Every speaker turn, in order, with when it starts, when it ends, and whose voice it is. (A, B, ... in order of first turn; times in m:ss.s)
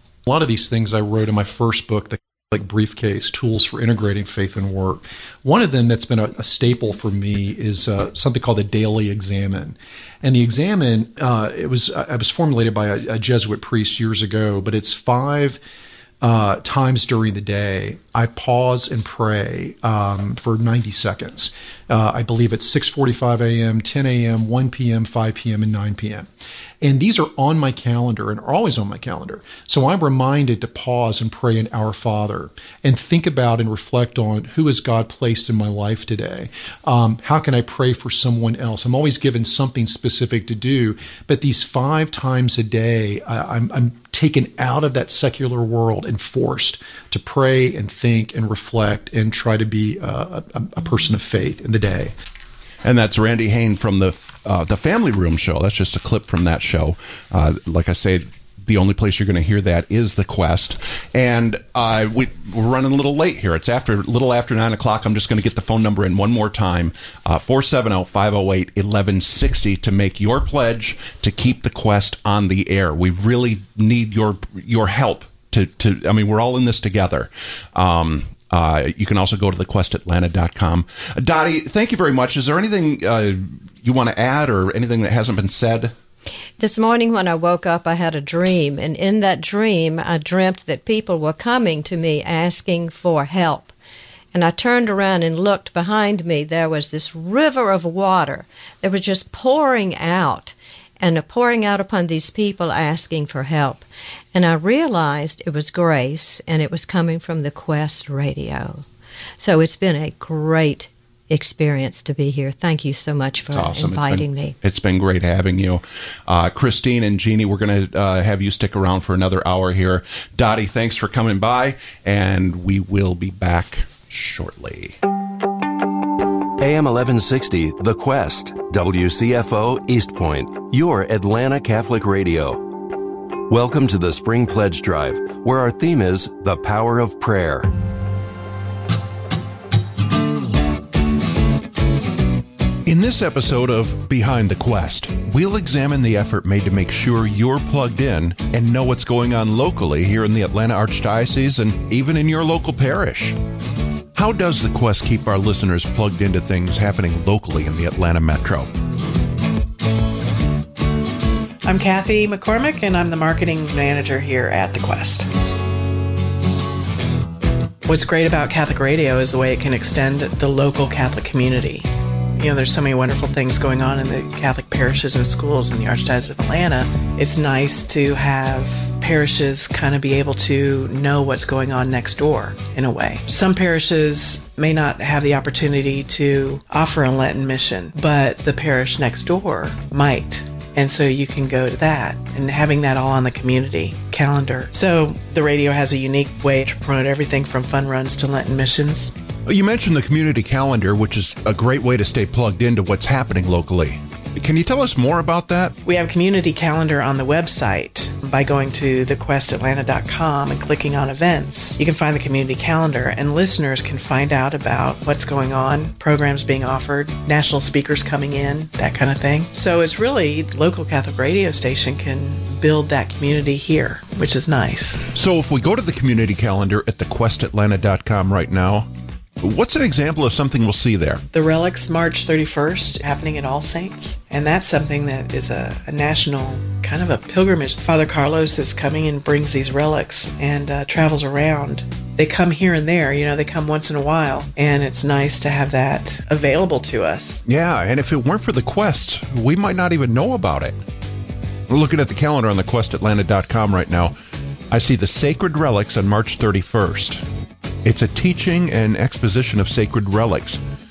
0:00.2-0:15.6 A
0:16.2-0:26.3 A
0:26.8-0:52.1 A
0:52.8-1:25.9 B
1:26.6-1:33.7 C
1:34.3-1:48.8 C
1:49.4-1:54.6 C
1:53.5-2:05.0 B
2:06.6-2:12.6 D
2:13.5-2:17.7 D
2:22.8-2:33.4 B
2:34.1-2:38.7 B
2:41.6-2:45.3 E
2:47.8-3:19.1 E
3:19.4-3:25.7 B
3:25.8-3:45.0 E
3:45.1-3:48.9 B
3:49.4-3:51.2 B
3:51.3-4:07.4 E
4:07.4-4:10.8 B
4:11.7-4:14.1 B
4:14.7-4:17.2 B
4:17.8-4:20.6 B